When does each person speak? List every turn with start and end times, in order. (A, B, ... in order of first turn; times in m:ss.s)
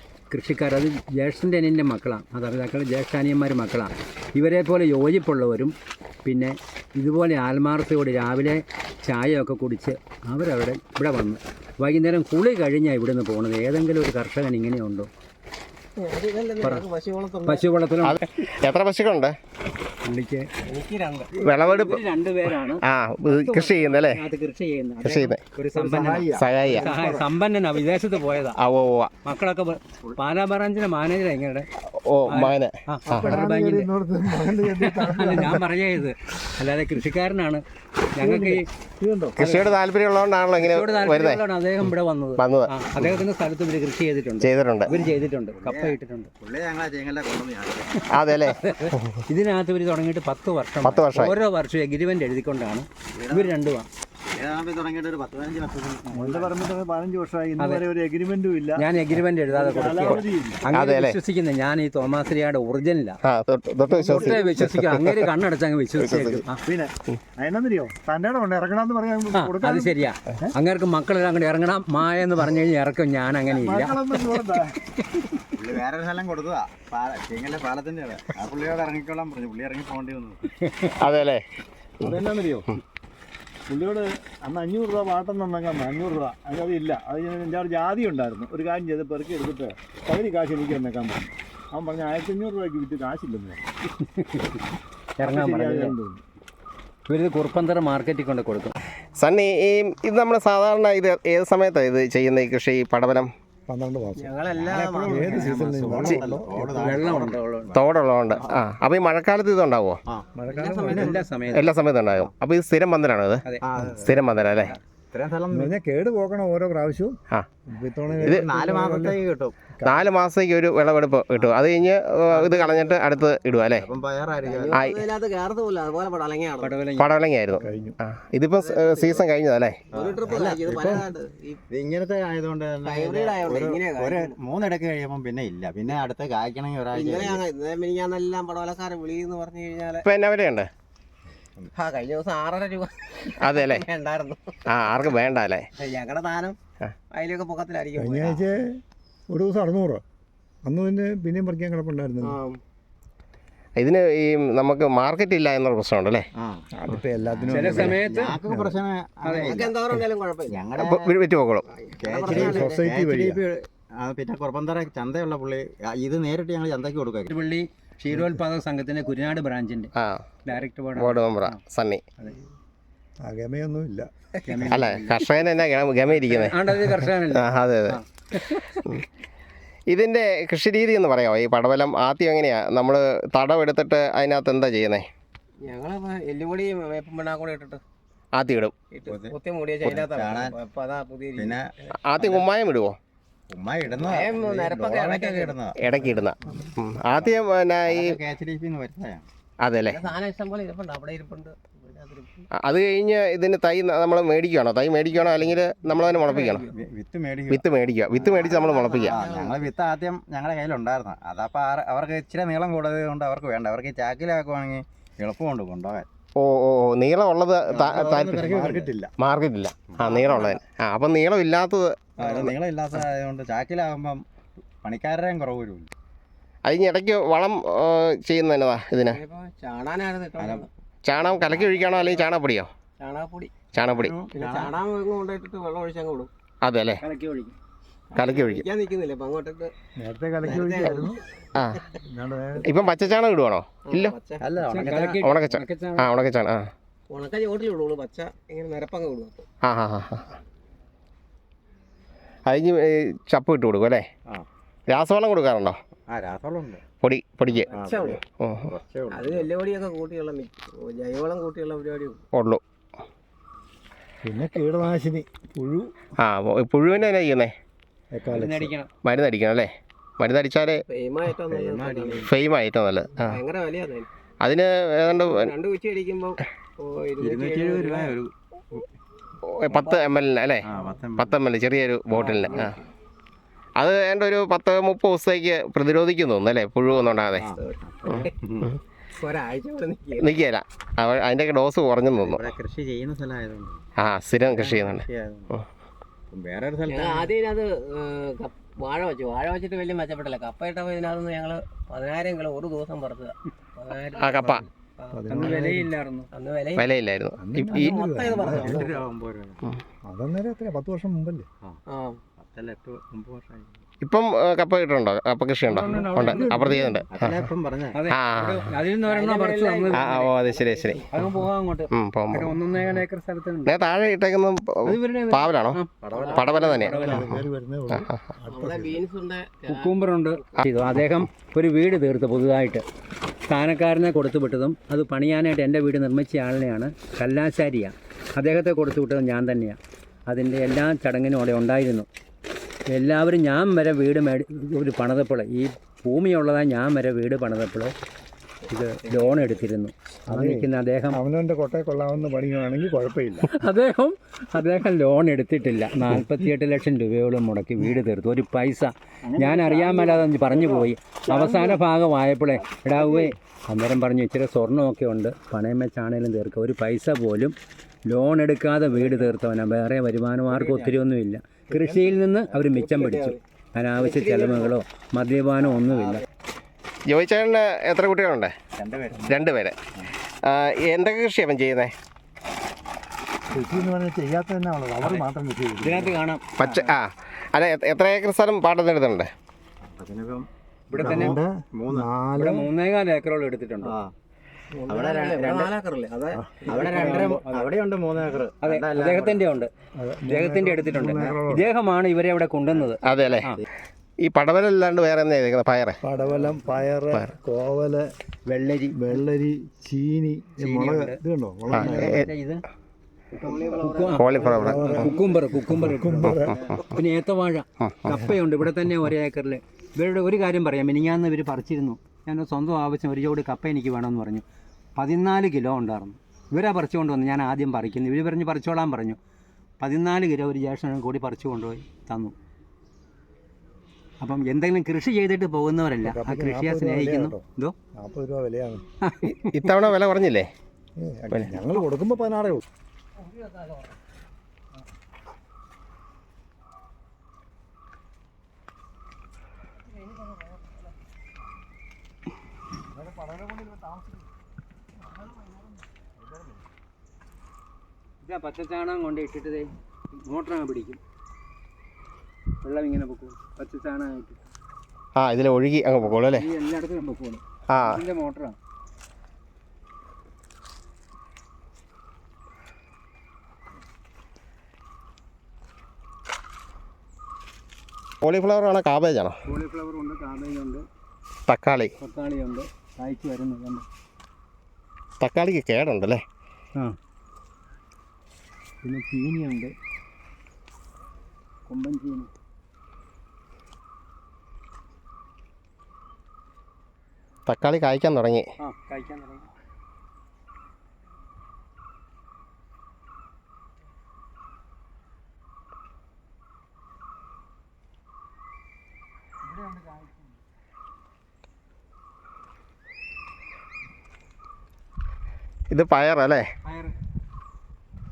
0:00.3-0:15.1 A
0:16.0-0:17.6 B
0:17.5-0:18.2 A
0:18.0-0:19.4 C
0:20.0-0:20.5 A
0:20.6-0:21.4 B
0:21.4-0:22.0 C
0:21.5-0:28.6 A
0:22.8-0:24.2 C
0:25.1-0:25.4 C
0:25.8-0:27.3 D
0:26.4-0:26.8 C
0:28.6-0:29.1 C
0:29.2-0:31.7 A
0:31.9-0:33.3 C
0:32.3-0:33.9 A
0:33.1-0:35.7 E
0:34.4-0:37.6 A
0:38.2-0:38.7 A
0:38.2-0:39.4 E
0:39.4-0:39.7 A
0:39.4-0:41.4 C
0:40.6-0:46.3 A
0:42.4-0:42.7 C
0:44.4-0:44.9 C
0:44.9-0:48.1 D
0:48.1-0:49.2 C
0:48.6-0:53.9 A
0:50.8-0:51.3 C
0:53.2-0:53.6 D
0:54.4-0:56.6 D
0:56.1-0:58.9 E
0:57.6-0:57.8 A
0:58.8-1:03.2 A
0:59.5-1:00.7 E
1:00.7-1:01.2 C
1:03.2-1:05.2 C
1:03.9-1:04.6 E
1:04.1-1:06.6 A
1:06.0-1:06.4 C
1:06.5-1:10.5 E
1:09.3-1:14.0 A
1:13.5-1:14.8 E
1:15.0-1:15.4 A
1:15.6-1:20.5 D
1:20.6-1:20.9 A
1:21.0-1:21.4 C
1:22.0-1:22.7 E
1:23.7-1:33.6 E
1:34.0-1:34.6 A
1:35.2-1:36.0 A
1:35.2-1:36.2 E
1:37.1-1:38.7 A
1:39.2-1:43.3 C
1:43.7-1:47.2 E
1:44.2-1:45.7 B
1:44.6-1:47.8 D
1:46.7-1:47.7 A
1:47.7-1:50.0 C
1:50.4-1:51.2 E
1:50.5-1:51.3 B
1:50.9-1:51.7 A
1:51.5-1:53.4 C
1:53.6-1:55.8 D
1:54.0-1:54.8 C
1:55.5-1:57.2 E
1:57.3-1:57.6 C
1:57.7-1:59.2 E
1:58.1-1:59.7 D
1:59.8-2:00.1 E
1:59.8-2:03.9 C
2:02.3-2:02.7 D
2:02.5-2:03.0 B
2:03.7-2:04.8 D
2:04.4-2:06.8 B
2:06.6-2:07.1 A
2:07.0-2:09.8 C
2:07.6-2:08.0 E
2:08.6-2:09.2 B
2:09.9-2:11.6 B
2:09.9-2:11.1 D
2:11.7-2:17.4 D
2:12.8-2:14.4 B
2:16.9-2:20.1 B
2:20.0-2:20.7 C
2:21.7-2:24.5 B
2:23.5-2:23.9 C
2:24.7-2:25.7 C
2:25.8-2:26.6 B
2:27.1-2:28.4 B
2:28.0-2:28.8 E
2:29.3-2:30.0 E
2:30.7-2:32.4 E
2:32.2-2:32.6 B
2:33.8-2:36.3 C
2:36.4-2:36.7 D
2:36.7-2:38.8 E
2:37.3-2:39.7 D
2:37.5-2:38.4 A
2:39.2-2:39.7 A
2:39.4-2:40.6 B
2:40.5-2:41.1 D
2:40.8-2:41.7 C
2:41.7-2:42.8 B
2:42.0-2:47.3 D
2:42.3-2:43.4 E
2:47.3-2:49.9 A
2:50.0-2:50.3 C
2:50.4-2:51.6 A
2:51.0-2:52.0 C
2:53.2-2:54.1 E
2:54.4-2:55.3 A
2:54.5-2:54.9 D
2:54.7-2:56.5 C
2:56.2-2:58.9 A
2:57.4-2:58.0 C
2:59.9-3:05.1 C
3:05.6-3:07.8 B
3:08.4-3:08.8 C
3:08.9-3:12.5 B
3:09.1-3:10.6 D
3:11.4-3:11.6 D
3:12.1-3:13.0 C
3:13.5-3:15.8 D
3:14.0-3:15.6 B
3:15.8-3:18.2 C
3:16.6-3:19.3 D
3:19.6-3:20.0 C
3:19.9-3:22.5 B
3:22.6-3:26.6 C
3:25.8-3:26.7 B
3:26.7-3:27.6 D
3:27.5-3:29.1 C
3:28.2-3:36.1 D
3:28.2-3:29.7 B
3:36.4-3:38.5 C
3:37.7-3:39.1 D
3:38.4-3:39.1 E
3:39.2-3:42.5 C
3:39.9-3:40.5 D
3:40.0-3:40.6 B
3:42.2-3:44.2 D
3:42.2-3:42.5 B
3:44.8-3:45.9 D
3:46.7-3:49.2 C
3:49.1-3:50.7 B
3:50.4-3:50.7 D
3:51.1-3:52.7 C
3:51.2-3:52.3 B
3:53.0-3:53.7 B
3:53.7-3:54.2 C
3:54.0-3:54.8 D
3:54.3-3:56.3 B
3:56.6-3:57.0 C
3:57.0-3:57.6 A
3:58.2-3:59.7 B
3:58.2-3:58.7 C
4:00.0-4:01.2 E
4:00.4-4:01.2 B
4:01.6-4:01.8 C
4:01.9-4:02.7 E
4:02.6-4:02.9 B
4:02.7-4:04.1 C
4:03.9-4:04.9 B
4:04.4-4:05.2 D
4:04.7-4:06.1 A
4:05.3-4:06.7 C
4:07.1-4:09.4 B
4:09.6-4:10.4 C
4:12.5-4:14.1 C
4:14.9-4:15.8 C
4:16.1-4:16.8 D
4:17.0-4:17.7 C
4:17.6-4:19.5 D
4:17.7-4:18.2 B
4:18.3-4:18.7 C
4:19.1-4:22.2 B
4:22.3-4:22.6 C
4:24.2-4:26.0 E
4:26.2-4:27.5 C
4:28.1-4:28.7 E
4:28.3-4:28.9 A
4:29.0-4:30.8 C
4:30.9-4:32.3 B
4:31.5-4:32.3 D
4:32.3-4:33.4 C
4:33.2-4:34.1 B
4:34.4-4:35.5 C
4:35.1-4:38.2 B
4:37.2-4:38.8 D
4:39.4-4:42.7 C
4:39.7-4:40.3 B
4:40.7-4:41.5 D
4:42.2-4:42.8 B
4:42.2-4:42.7 D
4:43.8-4:47.4 C
4:46.9-4:48.3 B
4:47.4-4:48.7 D
4:49.2-4:50.4 B
4:50.2-4:52.5 C
4:52.2-4:53.8 D
4:54.0-4:55.6 C
4:54.5-4:55.5 D
4:56.3-4:57.3 D
4:56.9-5:05.2 B
5:04.2-5:04.6 C
5:04.4-5:05.9 E
5:05.3-5:06.3 A
5:06.3-5:06.9 B
5:06.8-5:07.9 C
5:07.4-5:08.9 E
5:07.6-5:09.0 B
5:08.4-5:09.6 D
5:10.1-5:11.5 E
5:11.9-5:12.2 B
5:12.4-5:13.8 D
5:14.0-5:17.4 C
5:15.7-5:17.0 A
5:16.0-5:16.7 E
5:17.1-5:18.0 D
5:17.9-5:20.3 A
5:18.1-5:18.6 C
5:19.1-5:21.0 B
5:19.9-5:21.0 C
5:21.1-5:23.7 A
5:21.9-5:22.6 C
5:23.7-5:25.8 C
5:24.9-5:27.4 A
5:26.0-5:26.5 D
5:26.1-5:27.2 B
5:26.4-5:27.0 C
5:27.0-5:29.0 E
5:28.5-5:30.6 B
5:29.7-5:32.8 A
5:33.5-5:42.1 A
5:42.9-5:47.9 A
5:48.7-5:51.2 A
5:50.3-5:53.5 E
5:53.4-6:07.6 A
5:59.4-6:01.8 E
6:03.0-6:03.3 E
6:08.1-6:16.2 A
6:08.9-6:09.3 D
6:10.5-6:10.9 D
6:12.5-6:13.4 B
6:14.0-6:14.8 B
6:17.1-6:18.5 C
6:18.8-6:19.4 D
6:19.3-6:19.8 C
6:20.4-6:21.9 C
6:23.5-6:26.2 E
6:25.8-6:26.5 A
6:26.6-6:29.3 C
6:29.8-6:30.5 D
6:30.9-6:31.4 A
6:31.0-6:32.7 E
6:31.0-6:32.1 D
6:32.4-6:34.0 A
6:33.8-6:34.1 D
6:34.8-6:37.4 B
6:34.9-6:35.8 D
6:36.3-6:36.6 E
6:36.7-6:39.4 D
6:36.7-6:37.8 A
6:38.6-6:39.7 A
6:40.0-6:41.7 E
6:40.3-6:43.6 A
6:43.1-6:43.4 C
6:44.2-6:46.0 C
6:46.0-6:48.1 E
6:48.5-6:49.0 A
6:49.0-6:52.2 E
6:50.6-6:52.6 A
6:51.8-6:52.3 C
6:53.4-6:55.3 B
6:53.6-7:04.4 A
6:54.1-6:55.1 C
6:54.5-6:56.6 E
6:56.4-6:56.8 C
7:05.0-7:09.2 A
7:09.8-7:12.4 A
7:14.2-7:17.8 A
7:16.0-7:17.4 E
7:18.0-7:18.8 E
7:19.0-7:19.7 A
7:19.5-7:20.5 C
7:21.0-7:22.6 E
7:23.2-7:23.9 B
7:30.0-7:30.8 B
7:32.9-7:34.3 E
7:36.3-7:36.6 E
7:38.2-7:41.0 A
7:42.6-7:44.5 A
7:45.2-7:46.4 C
7:46.0-7:48.6 A
7:47.7-7:48.0 C
7:58.2-7:59.4 C
7:59.5-8:00.8 A
8:01.5-8:01.9 C
8:02.0-8:03.8 A
8:05.2-8:06.2 C
8:08.8-8:09.7 A
8:11.7-8:12.3 A
8:17.5-8:18.5 C
8:18.6-8:19.5 A
8:29.4-8:30.2 A
8:35.7-8:36.5 C
8:36.6-8:36.9 A